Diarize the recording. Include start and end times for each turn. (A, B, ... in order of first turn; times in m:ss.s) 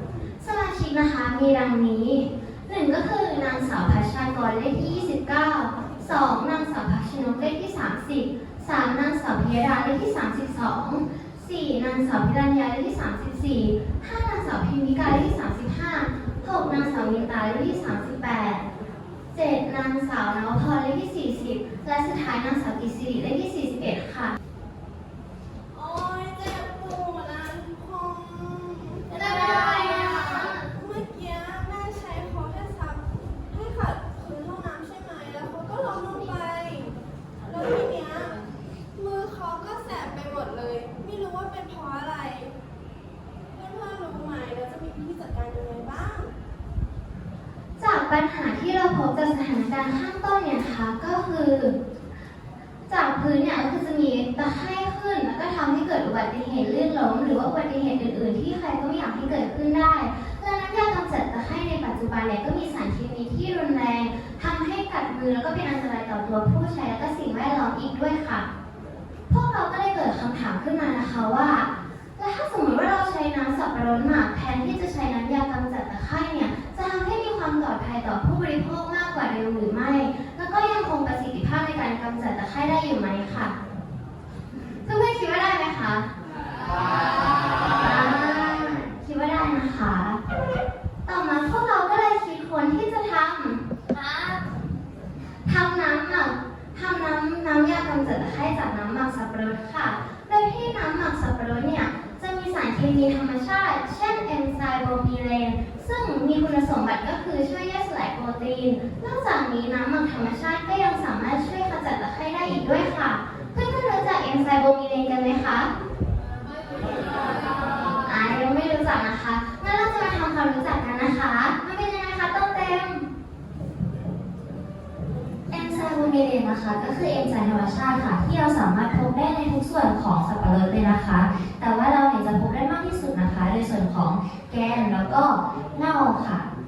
0:00.4-0:18.6 A
0:19.3-0:24.4 A
0:25.7-0:42.6 B
0:29.1-0:30.6 A
0:43.5-0:46.3 B
0:47.8-0:51.8 A
0:52.9-1:08.5 A
1:09.3-1:23.5 A
1:24.8-1:26.1 A
1:27.7-1:30.2 A
1:31.0-1:34.4 A
1:35.4-1:55.7 A
1:57.6-2:03.0 A
2:05.5-2:16.5 C